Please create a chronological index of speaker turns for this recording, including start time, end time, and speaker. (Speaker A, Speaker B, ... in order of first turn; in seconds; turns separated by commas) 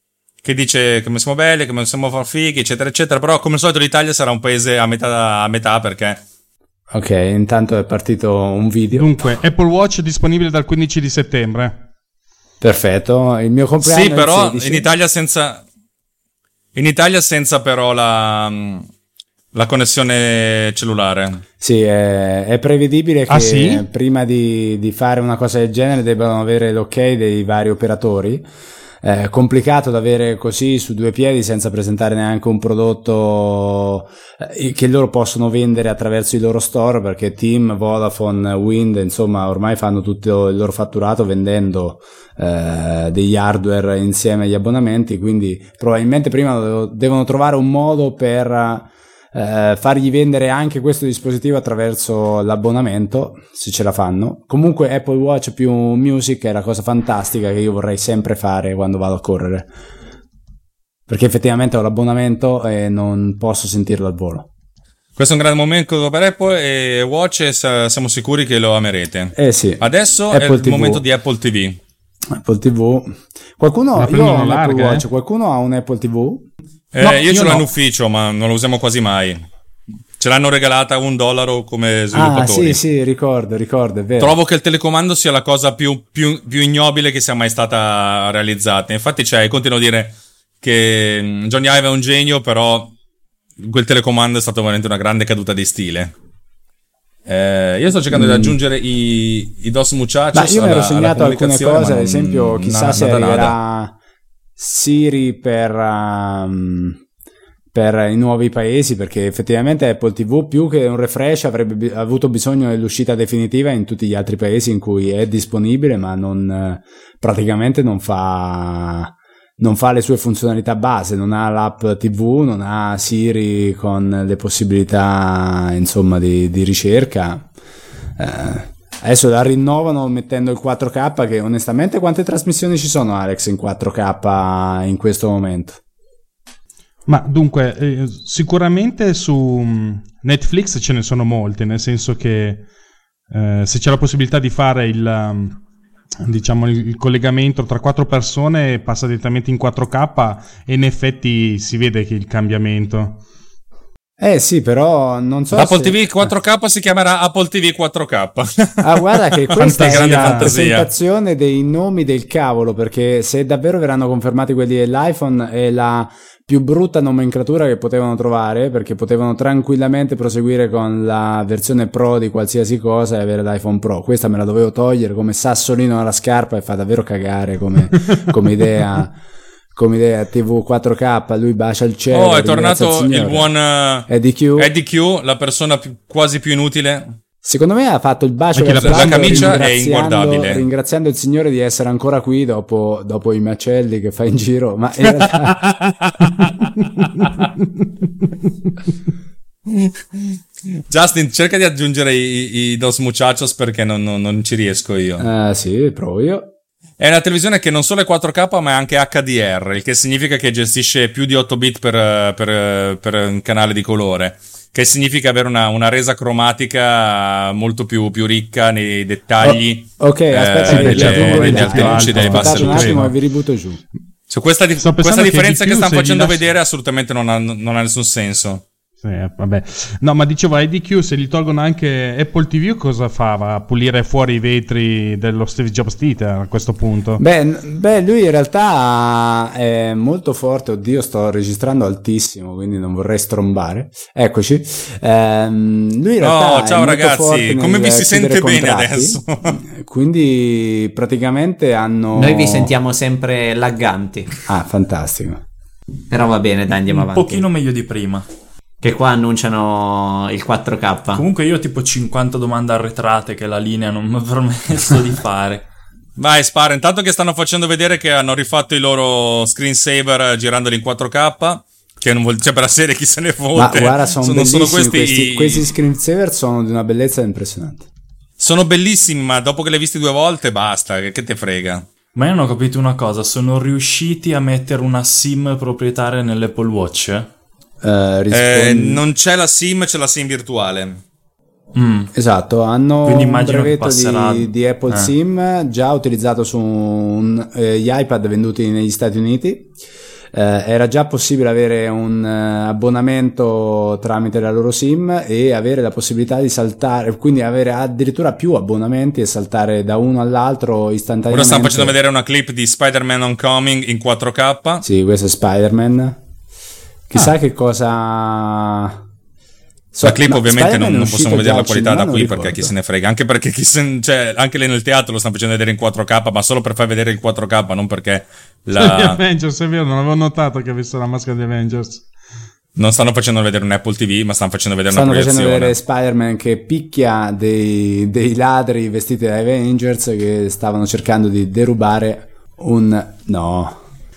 Speaker A: 0.4-6.2, Speaker B: 6.9-9.1, Speaker C: 8.9-11.8, Speaker B: 12.6-14.9, Speaker A: 13.8-15.6, Speaker A: 16.7-18.9, Speaker A: 19.5-21.4, Speaker B: 21.6-28.4, Speaker C: 23.3-23.8, Speaker B: 29.0-59.7, Speaker B: 61.1-64.5, Speaker A: 65.2-71.8, Speaker B: 69.3-71.0, Speaker B: 72.3-76.4, Speaker C: 74.0-75.0, Speaker A: 76.9-79.5, Speaker B: 77.0-77.7, Speaker A: 80.2-82.8, Speaker B: 82.1-84.3, Speaker A: 84.2-92.9, Speaker A: 93.6-96.1, Speaker A: 97.2-103.5, Speaker B: 98.1-98.5, Speaker B: 100.3-103.9, Speaker B: 104.6-107.0, Speaker B: 107.7-127.5, Speaker B: 128.2-135.8, Speaker C: 137.1-142.7, Speaker C: 143.3-145.6, Speaker C: 146.2-153.2, Speaker B: 154.2-156.3, Speaker A: 155.5-160.9, Speaker B: 158.8-179.1, Speaker C: 159.6-160.5, Speaker B: 179.7-183.5, Speaker A: 182.1-187.2, Speaker B: 184.1-184.7, Speaker B: 187.4-195.6, Speaker C: 188.5-189.6, Speaker A: 188.8-190.6, Speaker A: 195.1-197.5, Speaker A: 199.7-205.2, Speaker B: 205.2-206.5, Speaker A: 207.0-223.1, Speaker B: 219.4-223.8, Speaker C: 220.7-223.1, Speaker A: 224.3-228.6, Speaker C: 224.8-226.4, Speaker C: 229.0-237.2, Speaker B: 237.2-252.7, Speaker A: 246.2-249.6, Speaker D: 252.1-254.3, Speaker B: 254.4-255.4, Speaker D: 256.1-257.4, Speaker E: 256.9-258.3, Speaker D: 258.8-261.2, Speaker E: 261.1-265.6, Speaker A: 266.2-275.7, Speaker B: 273.5-277.9, Speaker A: 278.4-281.9, Speaker E: 282.1-287.3, Speaker B: 287.8-289.0, Speaker A: 288.3-291.0, Speaker E: 291.7-292.1, Speaker B: 292.1-299.7, Speaker E: 293.0-295.1, Speaker B: 300.3-311.9, Speaker A: 311.3-314.8, Speaker B: 314.8-316.2, Speaker B: 317.1-319.0, Speaker B: 319.9-322.7, Speaker A: 320.0-329.2, Speaker C: 328.7-332.0, Speaker A: 332.8-335.8, Speaker B: 334.9-343.8